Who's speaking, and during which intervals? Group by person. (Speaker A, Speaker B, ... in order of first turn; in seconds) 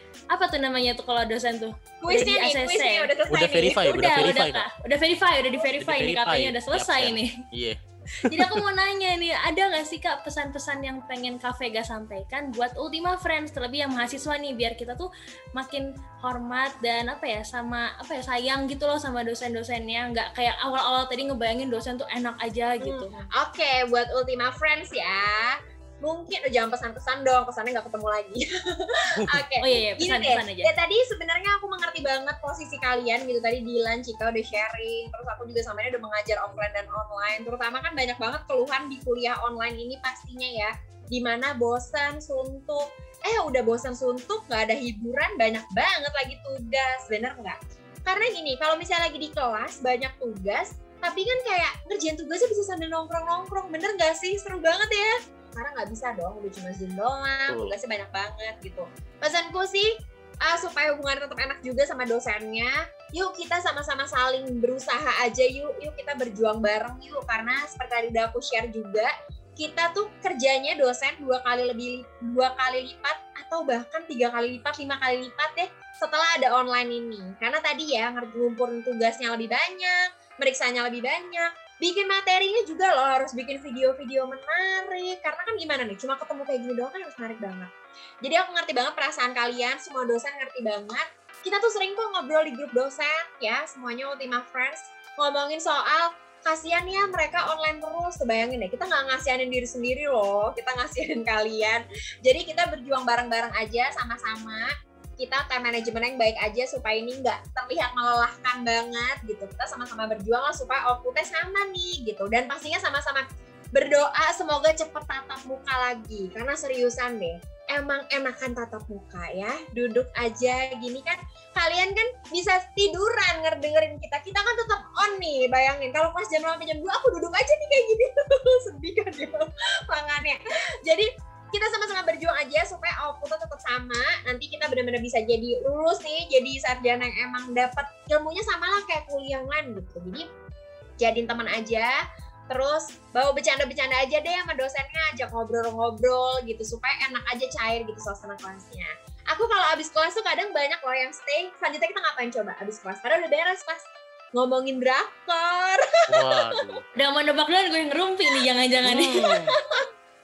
Speaker A: 0.3-3.1, 3.8-7.4, 8.2-23.3, 29.6-30.7, 157.0-159.3
Speaker B: 2.0-4.3, 22.8-87.7, 88.2-140.3, 141.0-141.9, 142.5-156.6, 159.2-159.9
Speaker C: 3.3-4.7, 5.8-8.6, 29.1-29.4, 57.5-57.8, 156.1-156.8, 158.8-159.5